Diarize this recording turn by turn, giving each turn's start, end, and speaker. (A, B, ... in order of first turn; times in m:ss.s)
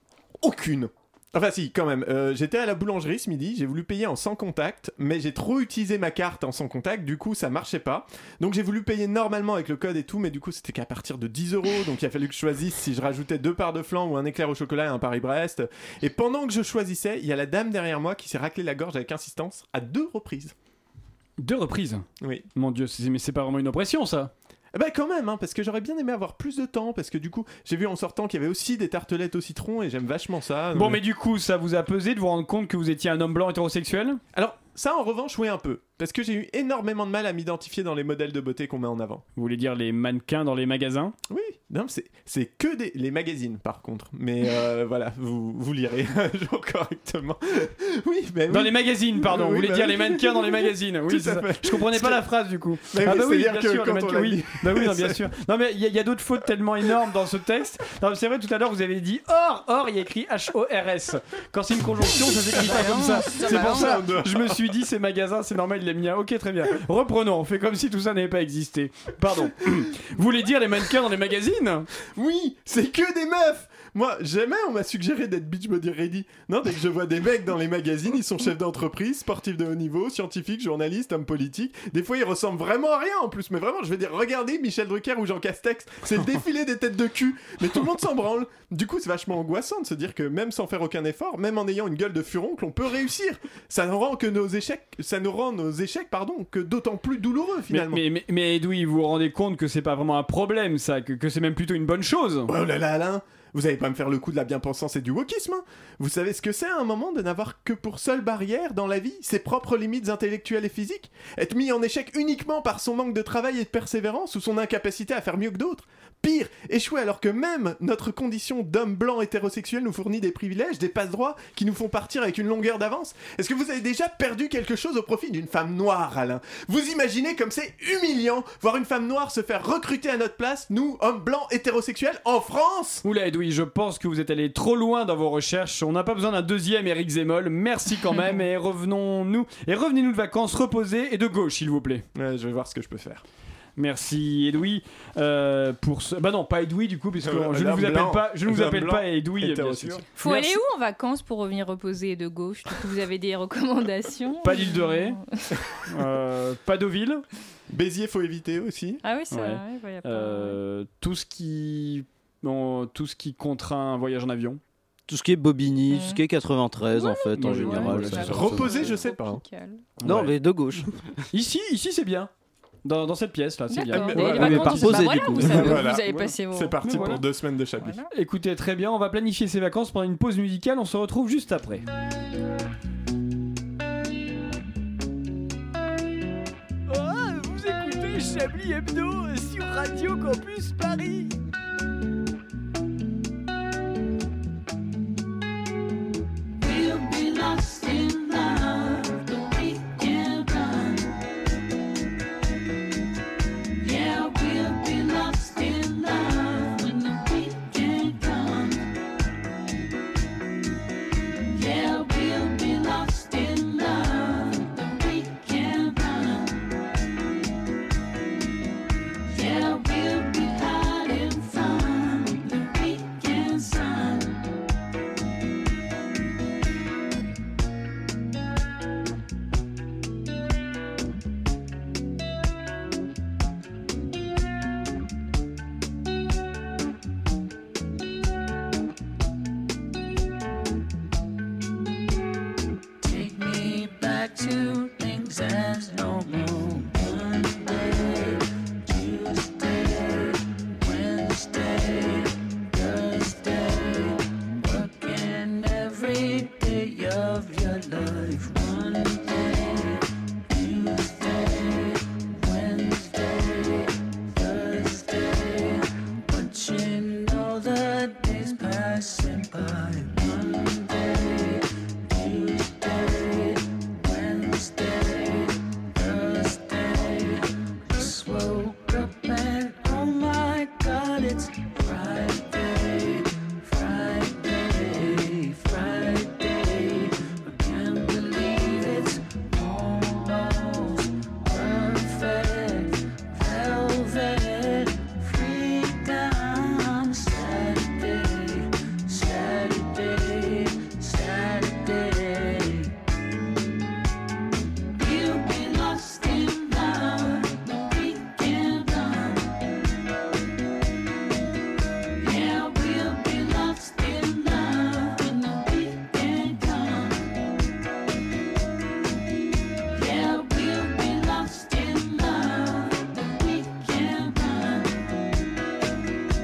0:00.4-0:20.5 A
0:21.4-0:24.3 B
0:22.2-0:22.5 A
0:24.7-0:31.0 A
0:30.7-0:34.2 B
0:34.3-0:39.2 A
0:39.4-0:41.1 B
0:41.3-0:52.2 A
0:48.5-1:11.9 B
0:52.9-0:55.2 A
1:02.5-1:04.0 C
1:02.8-1:04.6 A
1:12.1-1:38.0 A
1:37.7-1:42.5 B
1:42.5-2:13.0 A
2:13.0-2:22.0 B
2:22.1-2:23.2 A
2:23.8-2:30.6 B
2:27.2-2:30.0 A
2:30.2-2:35.6 C
2:34.4-2:35.2 B
2:35.8-2:37.2 B
2:37.7-2:39.0 A
2:39.0-2:40.6 C
2:39.3-2:44.6 B
2:45.1-2:48.4 D
2:45.9-2:46.2 C
2:46.9-2:49.8 C
2:47.4-2:49.0 B
2:48.1-2:49.4 A
2:50.0-2:50.3 B
2:50.0-2:50.9 D
2:51.3-2:52.3 B
2:52.8-2:56.3 B
2:53.7-2:56.8 C
2:53.9-2:58.0 A
2:54.2-2:55.8 D
2:56.8-2:57.2 B
2:57.8-2:58.1 C
2:58.1-3:01.8 B
3:06.9-3:11.3 B
3:16.6-3:21.1 E
3:23.8-3:28.9 E
3:31.5-3:36.6 E
3:39.3-3:44.4 E
4:03.0-5:02.9 E
5:04.9-5:09.5 E
5:12.2-5:17.3 E
5:19.9-5:25.0 E